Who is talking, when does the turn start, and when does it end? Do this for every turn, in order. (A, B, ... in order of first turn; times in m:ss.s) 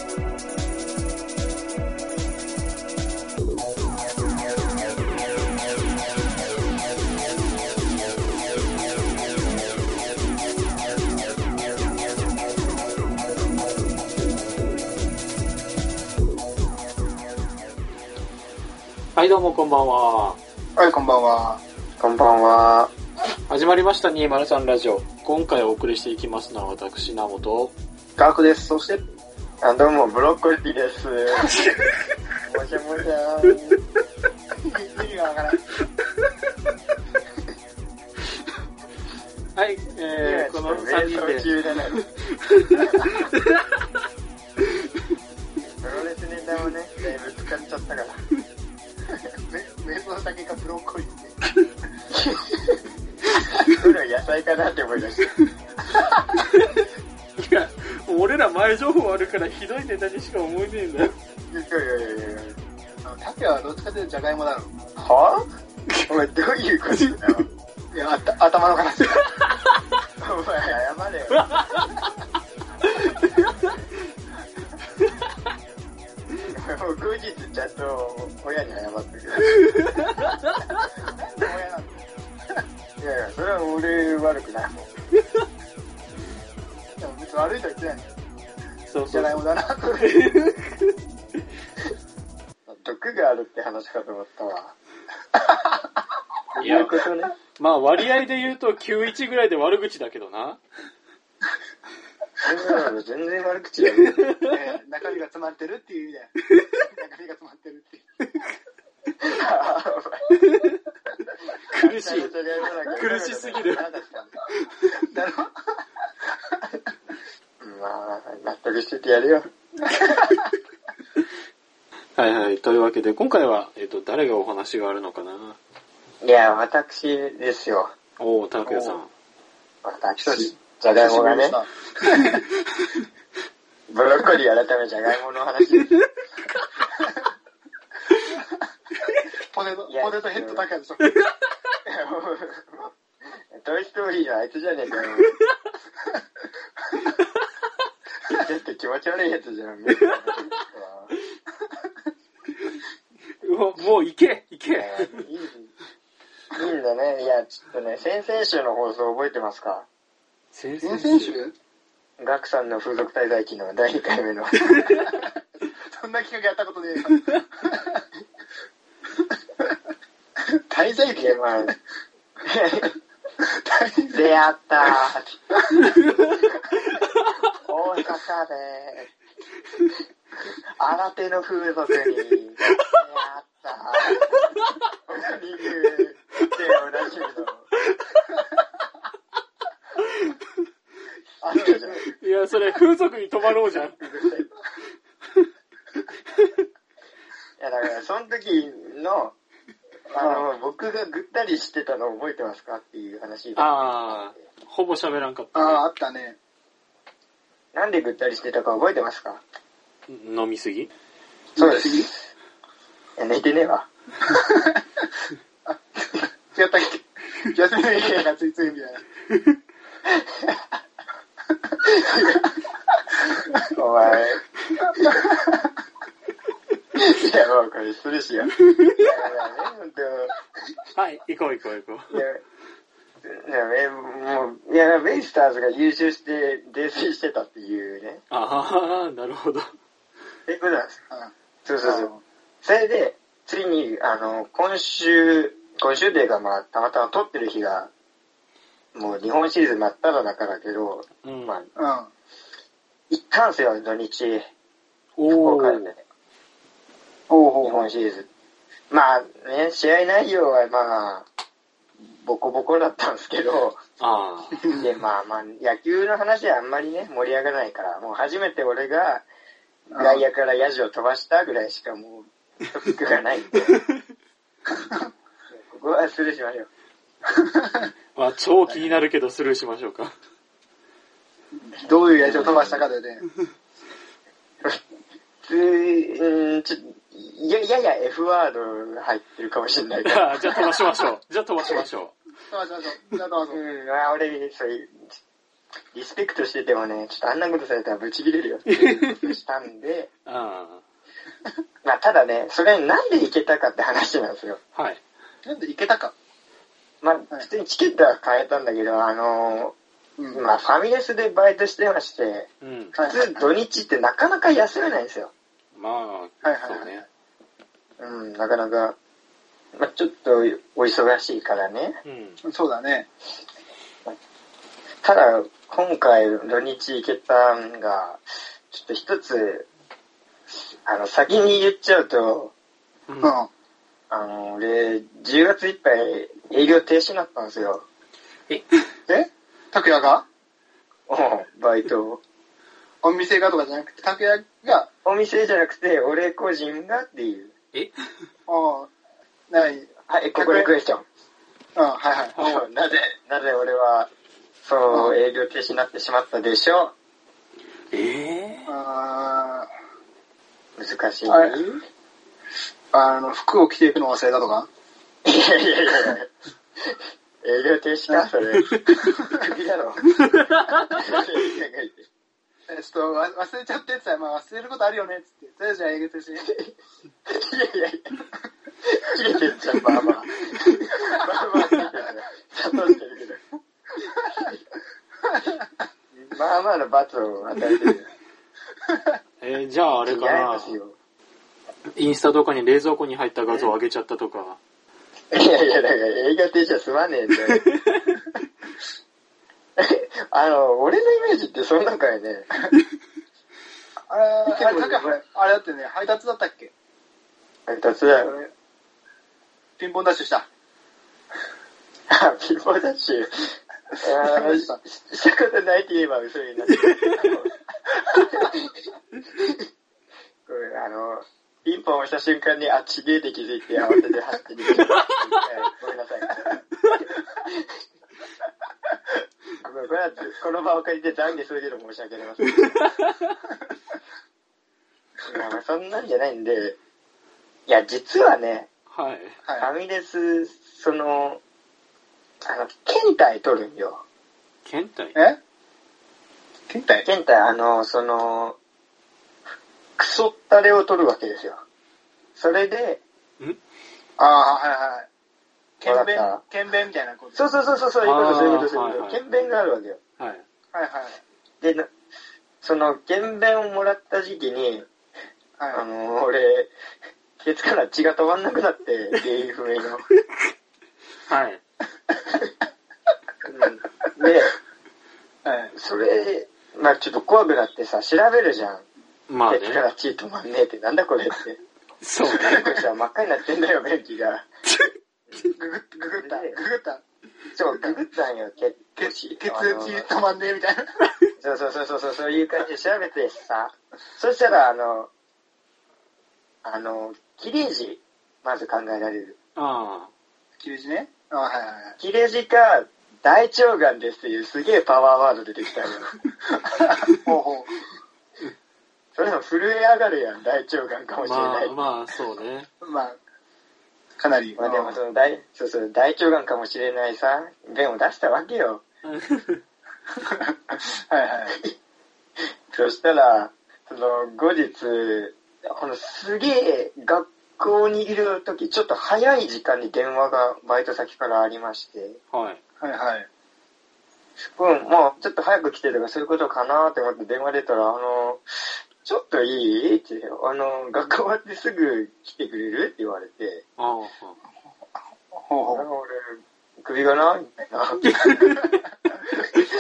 0:19.2-0:20.4 A
0:20.8-0:21.6 B
0:22.0-0:22.9 C
0:23.5-0:27.7 A
0:28.2-0:29.0 B
0:29.6-0:31.6 C
0:31.5-0:31.8 A
0:32.4-0:33.8 C
0:34.6-0:35.6 B
0:39.6-0:41.5 A
0:40.2-0:42.0 C
0:42.5-0:43.2 A
0:45.8-0:48.2 C
0:49.5-0:51.4 B
0:52.1-0:52.7 C
0:53.6-0:55.3 C
0:56.5-0:56.8 A
0:57.4-1:01.1 A
1:01.5-1:02.6 C
1:03.0-1:04.8 B
1:05.0-1:05.4 C
1:06.1-1:07.5 C
1:06.9-1:07.3 A
1:07.9-1:09.3 B
1:10.2-1:11.5 C
1:11.4-1:11.9 A
1:16.5-1:19.7 C
1:21.1-1:22.1 B
1:23.0-1:24.9 C
1:27.0-1:28.1 B
1:28.9-1:29.3 A
1:29.1-1:30.1 B
1:30.0-1:31.0 A
1:32.7-1:34.8 C
1:36.6-1:37.3 C
1:36.6-1:36.9 A
1:37.6-1:40.6 A
1:42.4-1:44.4 C
1:44.5-1:46.3 B
1:46.8-1:48.0 B
1:49.2-1:50.3 C
1:50.4-1:50.8 A
1:51.7-1:52.3 A
1:51.7-1:54.4 C
1:52.9-1:53.8 A
1:54.9-1:55.5 B
1:57.6-1:59.5 C
2:00.0-2:00.5 B
2:02.2-2:05.6 A
2:06.2-2:07.9 C
2:08.2-2:09.1 A
2:08.6-2:09.0 B
2:09.8-2:11.6 C
2:10.2-2:12.4 B
2:13.9-2:16.0 C
2:19.5-2:21.2 B
2:19.9-2:20.7 C
2:21.8-2:22.9 C
2:23.5-2:25.4 C
2:28.2-2:31.1 C
2:33.4-2:35.2 A
2:34.7-2:35.7 C
2:36.5-2:39.9 C
2:40.5-2:41.4 A
2:40.8-2:41.5 B
2:42.2-2:44.9 C
2:44.7-2:48.0 B
2:50.5-2:51.8 B
2:51.2-2:51.7 C
2:52.4-2:52.9 C
2:53.4-2:54.3 B
2:54.1-2:55.4 C
2:57.5-2:59.1 C
3:00.4-3:04.4 C
3:05.0-3:07.7 C
3:11.4-3:12.1 C
3:12.0-3:14.0 A
3:14.0-3:14.5 C
3:17.6-3:19.4 C
3:20.1-3:24.4 C
3:20.2-3:20.4 B
3:23.6-3:25.8 A
3:25.6-3:26.4 B
3:27.7-3:29.4 C
3:30.1-3:30.9 A
3:31.6-3:32.1 B
3:31.6-3:32.2 C
3:33.2-3:33.9 C
3:34.3-3:34.8 B
3:36.5-3:39.0 B
3:38.0-3:38.2 C
3:40.1-3:40.5 C
3:41.8-3:42.5 C
3:43.6-3:45.2 C
3:46.9-3:50.4 C
3:48.7-3:49.0 A
3:50.9-3:52.2 A
3:52.1-3:52.4 C
3:53.2-3:58.2 C
3:58.3-3:59.7 A
4:00.5-4:01.0 C
4:01.6-4:02.1 C
4:01.8-4:02.2 B
4:02.6-4:07.9 C
4:08.9-4:11.7 C
4:11.2-4:11.6 A
4:11.8-4:12.1 B
4:13.1-4:14.5 C
4:15.2-4:15.8 A
4:15.3-4:16.0 C
4:17.3-4:17.9 B
4:17.6-4:18.3 C
4:18.9-4:21.3 C
4:22.1-4:23.8 C
4:24.0-4:24.7 A
4:24.7-4:29.2 C
4:29.9-4:30.2 B
4:30.0-4:33.8 C
4:35.5-4:36.7 C
4:37.4-4:37.9 B
4:38.1-4:40.2 A
4:41.5-4:43.2 B
4:42.2-4:42.8 A
4:45.4-4:50.6 C
4:50.0-4:52.1 A
4:52.5-4:53.6 B
4:53.5-4:55.1 C
4:55.9-5:00.1 C
4:58.7-4:59.3 A
5:00.2-5:00.8 A
5:01.8-5:04.6 C
5:04.8-5:05.0 A
5:05.4-5:06.1 B
5:07.0-5:09.8 C
5:10.2-5:10.4 B
5:10.3-5:12.5 C
5:12.6-5:13.0 A
5:12.9-5:13.5 B
5:13.0-5:15.3 C
5:15.8-5:17.0 A
5:16.4-5:17.0 B
5:18.0-5:19.0 C
5:19.8-5:22.0 C
5:22.0-5:22.4 A
5:22.4-5:23.1 B
5:25.0-5:29.7 C
5:30.5-5:32.5 C
5:33.1-5:33.3 A
5:33.2-5:33.5 B
5:34.1-5:37.8 C
5:39.1-5:40.2 B
5:41.1-5:42.2 C
5:43.0-5:44.9 B
5:45.0-5:47.5 C
5:48.5-5:48.9 B
5:49.5-5:50.7 B
5:50.1-5:51.0 C
5:51.8-5:52.3 B
5:52.3-5:52.6 A
5:52.4-5:54.1 C
5:54.6-5:56.9 C
5:54.9-5:55.2 B
5:57.9-5:58.7 A
5:58.7-5:59.7 B
6:00.8-6:01.8 C
6:01.2-6:01.6 B
6:02.9-6:04.7 B
6:05.2-6:06.3 C
6:07.4-6:10.1 C
6:10.2-6:11.0 A
6:10.8-6:12.1 C
6:12.7-6:16.5 B
6:16.4-6:16.7 C
6:17.3-6:18.2 C
6:18.8-6:23.4 C
6:24.2-6:24.6 C
6:26.1-6:28.1 C
6:28.9-6:29.2 B
6:29.4-6:30.8 A
6:30.0-6:31.0 C
6:31.9-6:34.6 A
6:35.3-6:37.7 C
6:37.6-6:37.9 A
6:39.8-6:42.5 C
6:44.1-6:46.7 B
6:44.4-6:45.2 C
6:47.7-6:48.5 C
6:49.8-6:50.5 B
6:52.1-6:57.5 C
6:54.1-6:54.8 B
6:58.1-6:58.7 C
7:00.4-7:06.7 C
7:07.4-7:07.6 C
7:09.6-7:12.7 C
7:15.2-7:16.8 C
7:17.7-7:18.7 C
7:18.9-7:19.4 A
7:19.4-7:19.7 B
7:19.6-7:21.4 C
7:22.4-7:24.0 C
7:24.6-7:25.2 A
7:26.7-7:27.0 B
7:27.0-7:28.6 C
7:30.0-7:31.6 C
7:32.4-7:33.0 C
7:34.2-7:35.1 B
7:35.8-7:37.5 B
7:35.8-7:36.4 C
7:37.3-7:40.0 C
7:38.0-7:39.2 A
7:40.2-7:40.4 A
7:40.7-7:41.2 B
7:41.6-7:41.9 C
7:42.6-7:44.9 C
7:45.6-7:45.8 B
7:45.7-7:46.7 C
7:47.4-7:50.0 C
7:51.3-7:51.6 A
7:53.4-7:54.5 C
7:55.4-7:55.7 B
7:55.7-7:58.8 C
7:59.3-7:59.8 A
7:59.4-8:01.6 C
8:02.0-8:02.7 A
8:02.3-8:04.5 C
8:05.3-8:06.6 C
8:05.4-8:07.0 B
8:07.5-8:10.1 C
8:07.6-8:08.0 B
8:09.0-8:11.0 B
8:11.4-8:15.1 C
8:16.6-8:19.4 C
8:19.6-8:20.1 A
8:20.6-8:22.0 B
8:22.0-8:26.1 C
8:26.6-8:27.8 B
8:29.1-8:31.8 C
8:31.2-8:32.7 A
8:32.8-8:33.2 B
8:34.2-8:35.0 B
8:34.6-8:38.8 C
8:39.0-8:39.6 A
8:40.2-8:41.6 B
8:41.5-8:41.8 C
8:42.7-8:52.2 C
8:52.3-8:52.6 A
8:52.8-8:53.3 B
8:54.4-9:03.6 C
9:03.8-9:04.4 A
9:05.3-9:05.9 B
9:05.7-9:08.0 C
9:08.0-9:08.8 A